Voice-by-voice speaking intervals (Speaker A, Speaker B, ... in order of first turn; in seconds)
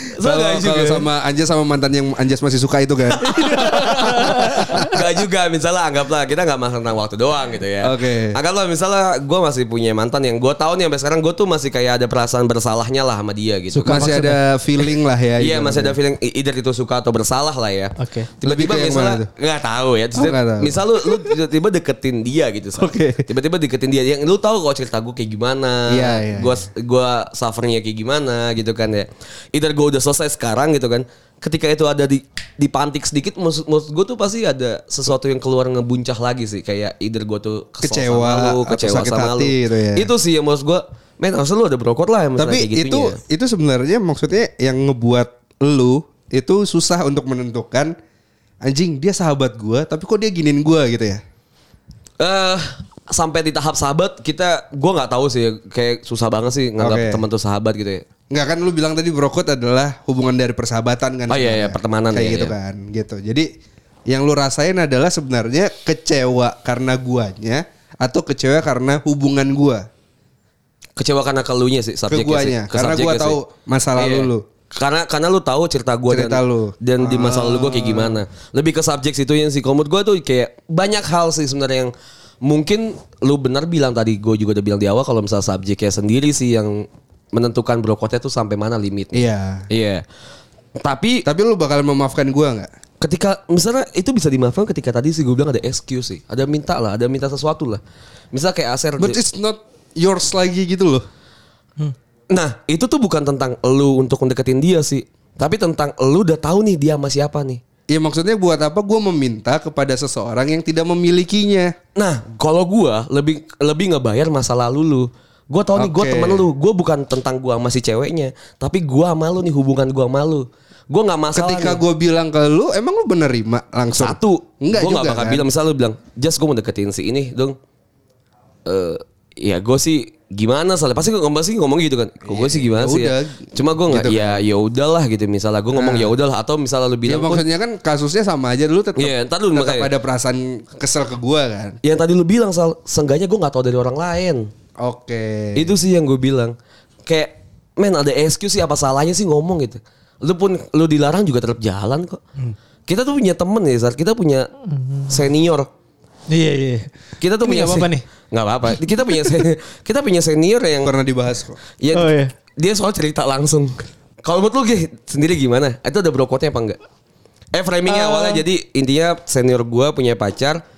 Speaker A: 0.1-1.1, 3.2-14.2, 15.4-43.2, 52.2-58.0, 61.3-62.5, 71.0-73.4, 74.0-81.9, 82.4-90.0, 90.8-91.2, 93.0-97.8, 98.3-99.2, 102.3-107.6, 112.0-121.8, 123.9-127.5, 128.7-137.4, 139.0-139.9, 141.8-144.5, 145.5-146.5, 147.1-152.2, 152.9-154.5, 155.1-155.7, 157.2-160.9, 161.8-166.8, 167.5-170.6
Speaker B: 0.2-3.2, 7.8-8.3, 13.8-15.9, 18.4-19.3, 20.1-21.3, 22.8-23.2, 25.9-26.6, 37.8-40.1, 42.4-47.9, 48.6-51.2, 56.8-57.2, 58.3-63.5, 64.1-69.8, 72.1-74.4, 76.1-78.2, 89.1-89.7, 91.2-92.7, 99.0-101.0, 107.9-111.7, 115.7-116.5, 121.3-125.5, 132.3-134.4, 135.7-136.1, 137.1-141.8, 144.8-145.7, 160.8-161.6
Speaker C: 3.3-4.8, 13.7-14.4, 18.0-18.3, 156.3-158.0, 161.9-162.3, 167.9-168.4